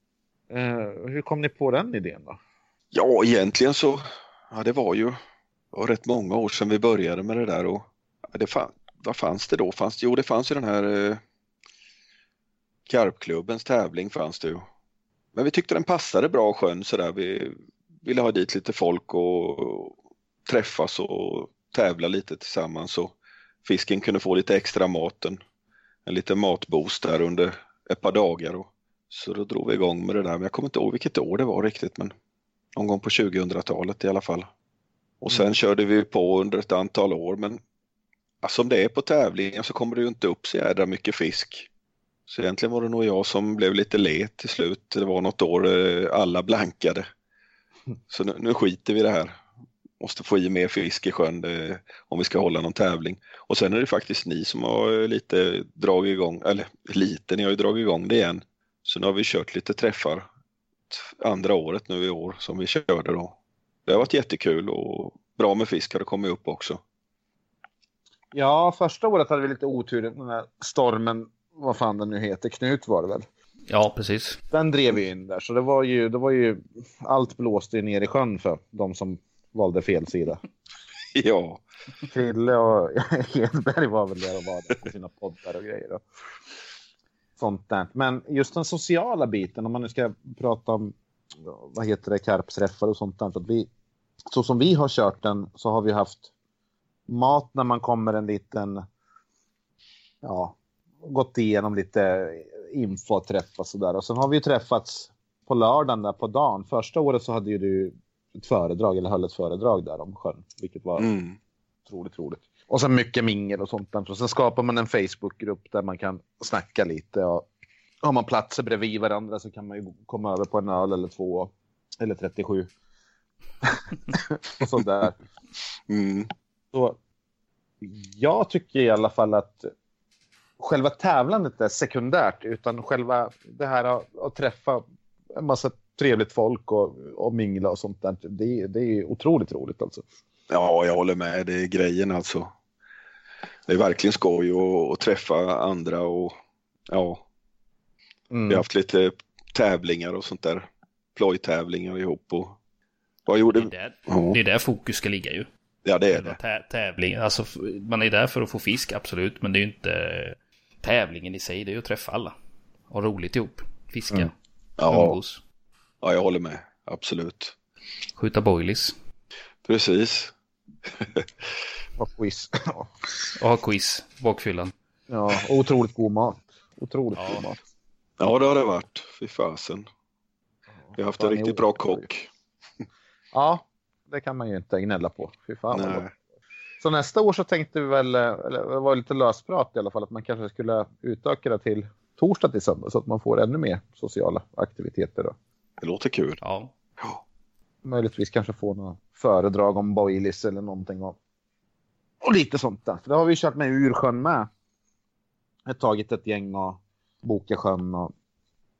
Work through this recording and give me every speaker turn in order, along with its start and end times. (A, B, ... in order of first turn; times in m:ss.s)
0:00.5-0:02.4 A
0:02.9-0:05.2 B
0:05.7-0:11.2 B
0:12.9-0:14.6 B
0:15.3-0:19.9 B
0:20.4-0:23.1 B
0:23.6-0:25.4 B
0:26.0-0:32.1 B
0:32.8-0:34.5 B
0:35.2-0:37.6 B
0:38.4-0:41.7 B
0:42.3-0:47.0 B
0:48.1-0:49.4 B
0:50.0-1:00.3 B
1:00.9-1:03.3 B
1:03.9-1:06.8 B
1:08.3-1:13.2 A
1:13.7-1:14.4 C
1:14.5-1:20.4 A
1:21.1-1:21.6 B
1:22.1-1:26.0 A
1:27.4-1:33.7 A
1:34.3-1:36.3 A
1:37.1-1:38.8 A
1:40.2-1:51.1 A
1:51.0-1:51.4 B
1:51.8-1:57.5 A
1:58.0-2:02.7 A
2:03.6-2:05.2 A
2:05.9-2:06.3 B
2:06.7-2:07.0 A
2:07.8-2:09.7 A
2:10.6-2:20.0 A
2:20.5-2:22.5 B
2:23.7-2:26.3 B
2:26.9-2:27.2 B
2:28.3-2:28.6 A
2:28.5-2:32.6 B
2:33.3-2:34.4 B
2:33.5-2:35.5 C
2:35.8-2:36.4 B
2:36.1-2:42.3 C
2:42.9-2:45.4 C
2:44.8-2:45.2 B
2:46.0-2:47.5 B
2:48.2-2:48.9 C
2:49.6-2:50.3 B
2:51.0-2:51.3 B
2:52.0-2:52.9 A
2:53.4-2:54.7 C
2:55.1-2:57.6 A
2:58.2-2:59.9 B
3:00.8-3:02.0 A
3:01.0-3:02.3 B
3:03.3-3:06.0 A
3:05.7-3:06.1 B
3:06.8-3:15.3 A
3:15.8-3:16.4 B
3:16.4-3:16.7 C
3:17.8-3:21.2 A
3:22.2-3:24.5 A
3:25.6-3:28.1 A